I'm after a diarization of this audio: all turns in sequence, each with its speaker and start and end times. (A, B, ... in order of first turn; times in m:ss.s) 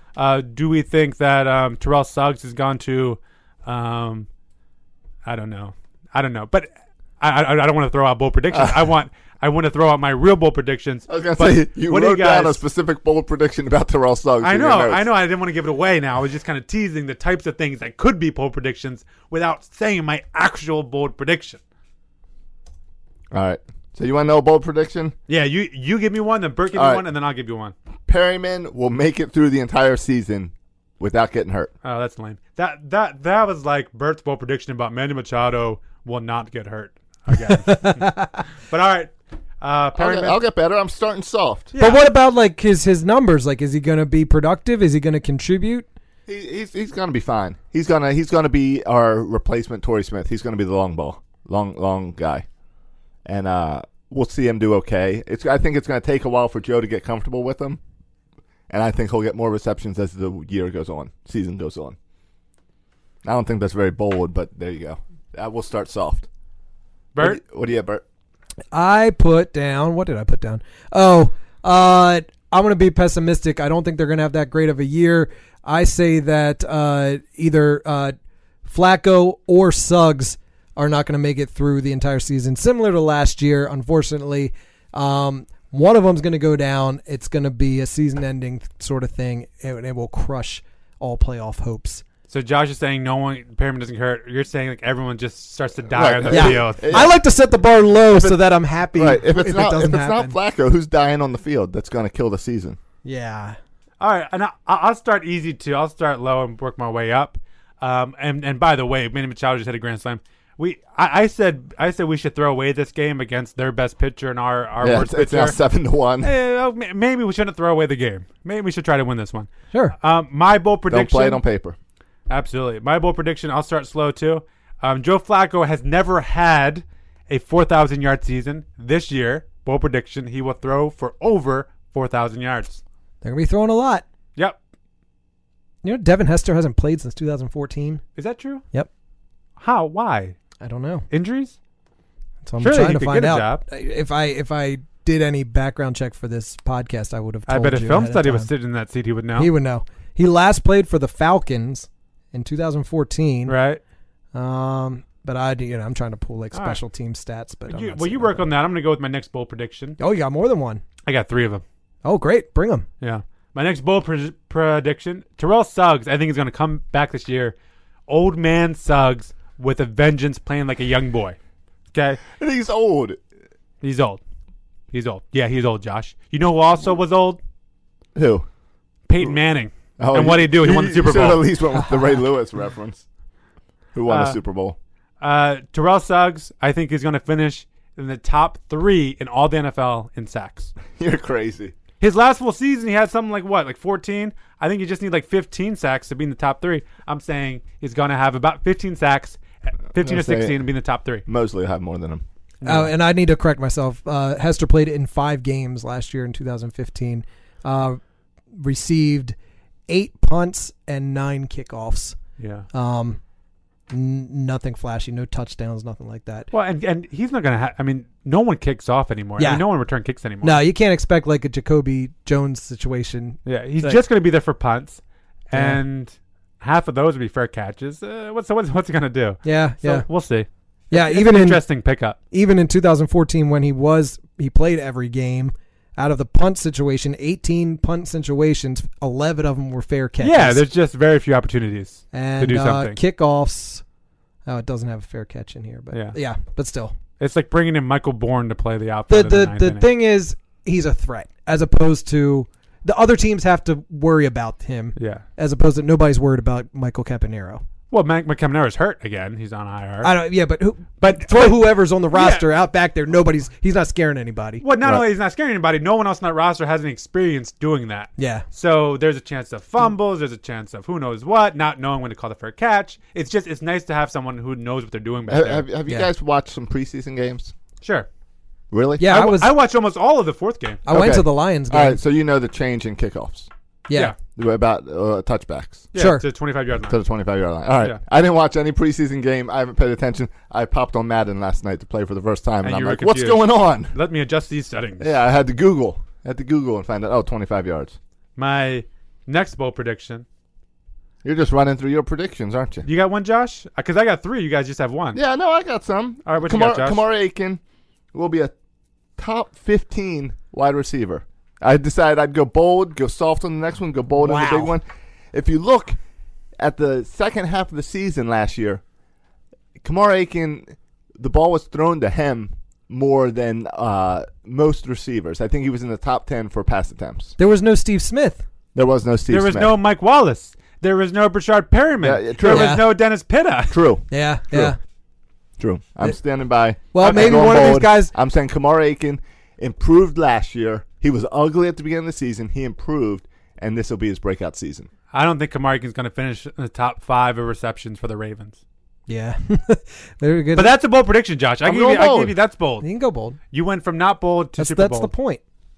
0:00.2-0:04.3 A
0:05.2-0:06.7 A
0:07.2-0:12.6 A
0:08.5-0:08.8 B
0:11.1-0:15.1 B
0:14.4-0:21.6 A
0:23.3-0:25.1 B
0:25.3-0:27.7 A
0:26.7-0:27.0 B
0:28.1-0:31.7 B
0:31.8-0:38.0 A
0:37.3-0:38.4 C
0:38.7-0:40.4 A
0:40.0-0:41.7 B
0:41.7-0:42.0 A
0:41.8-0:45.9 C
0:46.3-0:52.4 B
0:53.3-0:57.8 B
0:58.7-1:02.0 B
1:03.2-1:06.3 B
1:07.2-1:08.0 B
1:08.7-1:18.1 C
1:18.7-1:32.0 C
1:32.3-1:37.1 A
1:35.9-1:37.2 B
1:36.3-1:40.4 C
1:38.2-1:42.8 B
1:43.0-1:43.6 C
1:44.0-1:55.6 A
1:54.8-1:56.3 B
1:56.2-2:01.4 A
2:00.9-2:01.8 B
2:02.3-2:12.8 A
2:13.2-2:14.0 C
2:15.8-2:18.0 C
2:18.2-2:18.6 A
2:19.6-2:20.4 A
2:20.6-2:21.0 C
2:21.1-2:21.6 A
2:22.4-2:28.5 C
2:22.6-2:23.6 A
2:27.5-2:29.5 A
2:29.4-2:33.6 C
2:33.4-2:33.8 A
2:34.3-2:38.5 C
2:36.5-2:36.8 A
2:37.7-2:40.0 A
2:40.0-2:40.8 C
2:41.0-2:41.6 A
2:42.0-2:42.9 C
2:43.0-2:47.6 A
2:48.1-2:51.4 A
2:51.9-2:52.2 A
2:52.4-2:53.2 B
2:53.8-2:54.2 A
2:54.9-2:57.4 A
2:58.1-2:58.5 B
2:59.1-3:01.4 A
3:00.0-3:03.0 B
3:04.0-3:04.8 B
3:04.1-3:04.4 A
3:05.2-3:10.7 A
3:11.0-3:11.7 B
3:12.0-3:21.2 A
3:20.0-3:20.6 B
3:21.3-3:22.2 B
3:22.6-3:22.9 A
3:22.6-3:28.0 C
3:28.6-3:29.3 C
3:29.9-3:32.2 C
3:32.4-3:32.7 A
3:32.7-3:33.2 C
3:33.9-3:36.5 C
3:36.5-3:40.6 A
3:39.4-3:39.6 C
3:40.4-3:44.0 C
3:43.4-3:52.2 A
3:45.5-3:45.8 C
3:49.4-3:50.0 C
3:50.9-3:51.6 C
3:52.3-4:00.6 C
4:00.2-4:03.0 A
4:02.1-4:03.8 C
4:04.4-4:07.0 C
4:05.9-4:06.2 A
4:07.2-4:09.9 A
4:09.1-4:17.6 C
4:15.0-4:15.2 A
4:17.9-4:20.1 A
4:20.0-4:24.6 C
4:21.0-4:22.5 A
4:24.6-4:35.7 A
4:28.2-4:28.4 C
4:35.3-4:37.5 B
4:37.8-4:38.1 A
4:38.7-4:39.2 B
4:39.0-4:39.5 C
4:39.0-4:40.8 A
4:40.9-4:42.0 C
4:40.9-4:43.5 B
4:43.9-4:44.1 C
4:44.4-4:45.9 B
4:45.9-4:47.0 A
4:46.0-4:46.2 C
4:46.9-4:53.9 B
4:52.6-4:55.1 A
4:55.0-4:58.0 B
4:58.4-5:00.2 A
5:01.2-5:02.9 B
5:02.8-5:05.2 A
5:05.1-5:07.6 B
5:06.2-5:07.0 A
5:08.1-5:08.5 B
5:09.2-5:16.0 B
5:14.2-5:14.7 C
5:16.6-5:18.8 B
5:19.8-5:27.3 B
5:27.4-5:28.4 C
5:28.7-5:29.8 B
5:29.3-5:33.8 A
5:32.0-5:32.8 B
5:32.5-5:32.8 C
5:33.7-5:34.7 B
5:34.1-5:34.8 C
5:35.6-5:44.9 B
5:36.9-5:38.1 C
5:37.0-5:37.8 A
5:45.1-5:48.6 A
5:49.1-5:50.8 C
5:50.5-5:52.9 A
5:51.6-5:52.3 B
5:52.8-5:53.4 C
5:53.5-5:55.1 A
5:54.6-5:55.4 C